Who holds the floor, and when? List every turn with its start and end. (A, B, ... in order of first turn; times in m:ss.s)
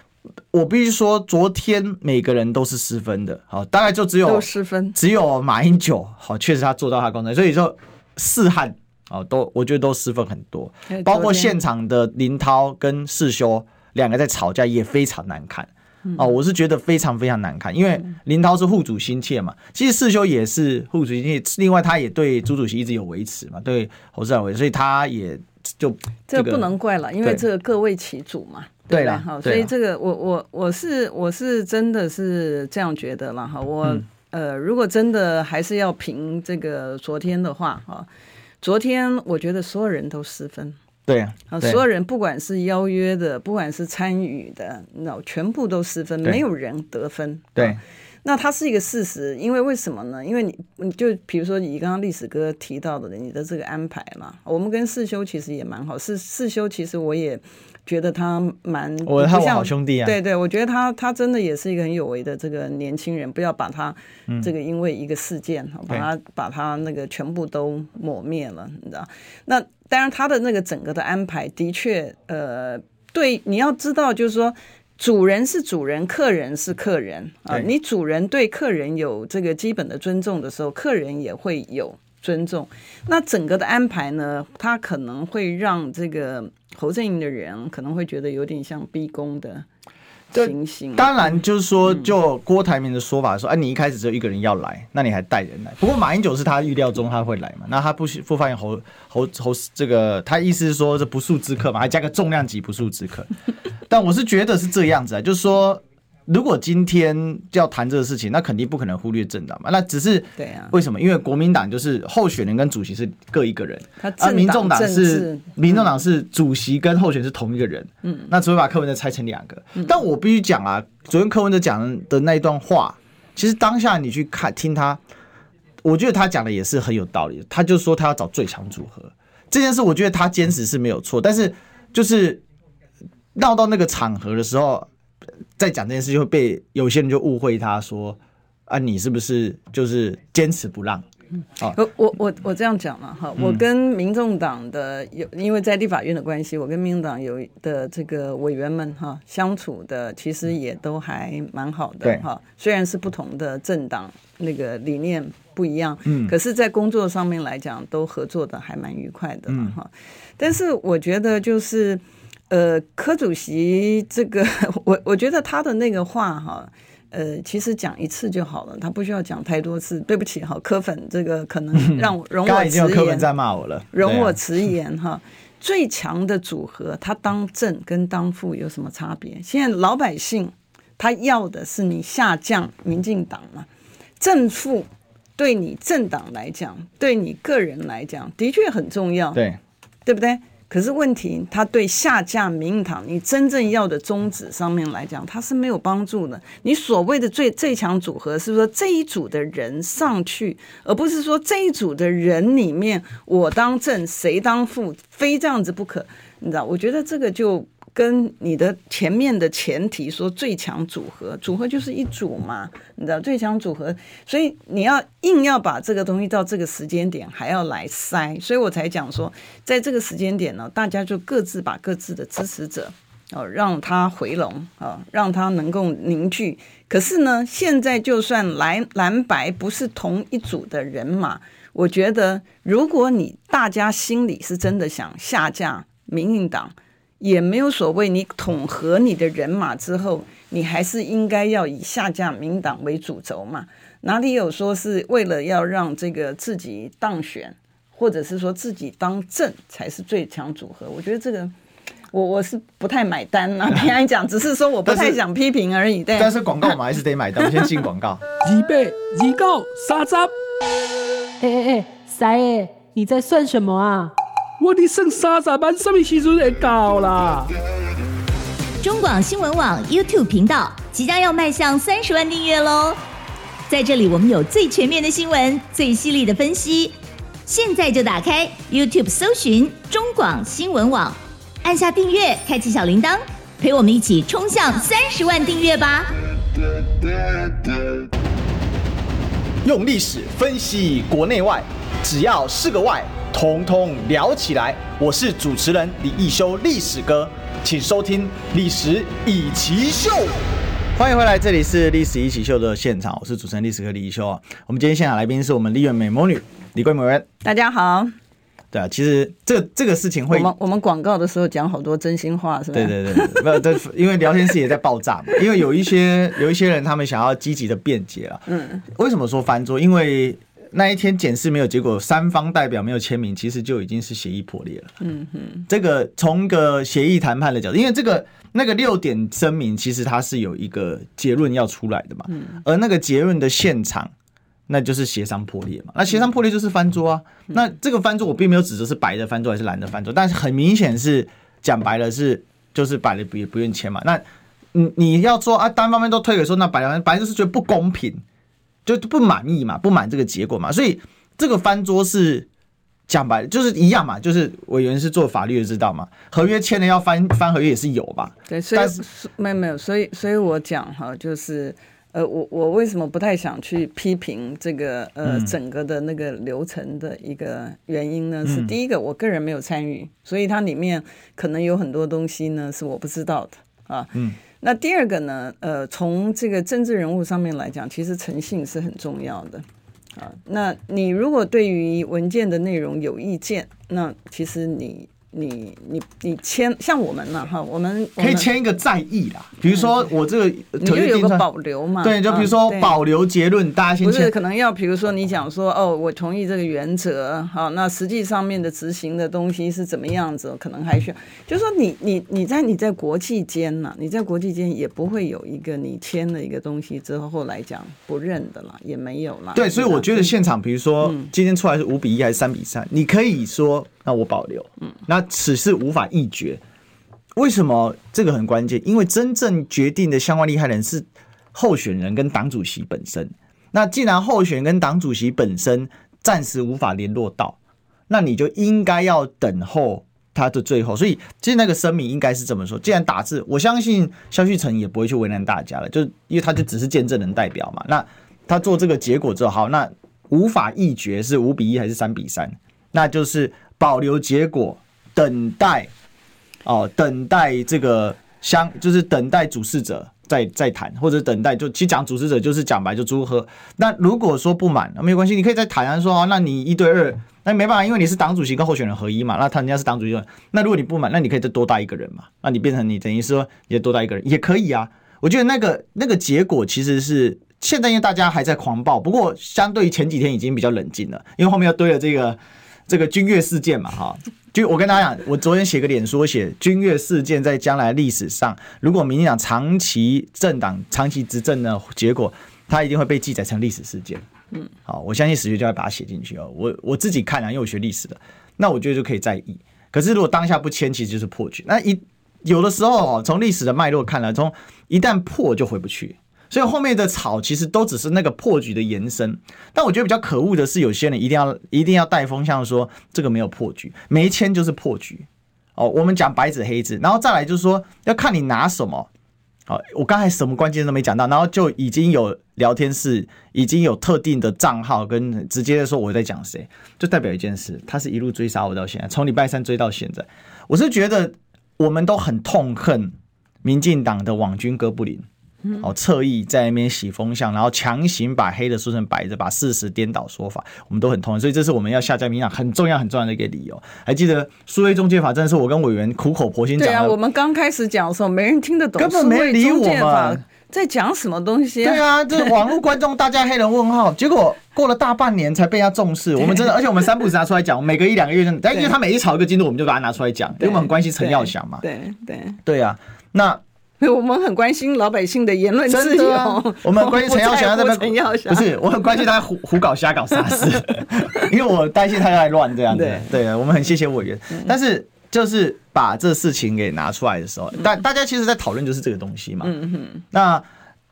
0:00.5-0:26.7 A
0:04.2-0:05.0 B
0:10.9-0:11.6 B
0:26.3-0:38.1 B
0:28.9-0:29.7 A
0:38.6-0:40.8 B
0:41.1-0:41.8 A
0:41.5-1:29.6 B
0:59.0-1:00.2 A
1:30.3-1:43.3 A
1:30.3-1:31.1 B
1:43.9-2:05.0 A
1:50.4-1:50.7 B
1:54.0-1:55.9 B
2:05.8-2:12.4 A
2:13.3-2:14.9 A
2:15.6-2:21.0 A
2:21.7-2:53.3 B
2:36.0-2:36.3 A
2:39.5-2:39.7 A
2:51.7-2:54.4 A
2:53.9-3:03.7 B
3:04.2-3:09.4 B
3:10.0-4:11.5 B
4:12.1-4:16.4 B
4:14.8-4:15.2 A
4:16.2-4:18.2 A
4:18.4-4:20.3 C
4:21.4-4:24.1 D
4:24.6-4:27.5 C
4:28.8-4:33.0 E
4:33.7-4:46.1 E
4:46.8-4:48.0 A
4:49.6-5:00.4 A
5:01.0-5:07.2 A
5:07.4-5:08.1 B
5:08.7-5:10.5 A
5:10.3-5:13.6 B
5:12.7-5:24.9 A
5:18.5-5:18.8 B
5:25.0-5:25.6 B
5:25.7-5:34.1 A
5:32.3-5:32.6 B
5:34.7-5:48.2 A
5:48.8-5:52.5 A
5:53.1-5:59.0 A
5:58.5-6:19.6 B
6:05.2-6:05.5 A
6:08.4-6:08.7 A
6:20.2-6:28.5 B
6:28.2-6:31.4 A
6:30.8-6:33.0 B
6:32.0-6:34.3 A
6:34.0-6:50.3 B
6:49.5-6:56.6 A
6:57.4-7:07.6 A
7:08.1-7:25.9 A
7:26.6-8:04.2 A
8:04.8-8:29.1 A
8:29.7-8:57.2 A
8:56.8-9:02.0 B
8:59.0-9:00.4 A
9:01.8-9:11.8 A
9:10.6-9:12.6 B
9:12.6-9:13.6 A
9:14.0-9:18.7 B
9:15.9-9:29.8 A
9:21.2-9:21.5 B
9:22.9-9:23.2 B
9:29.6-9:30.2 B
9:30.3-9:30.6 A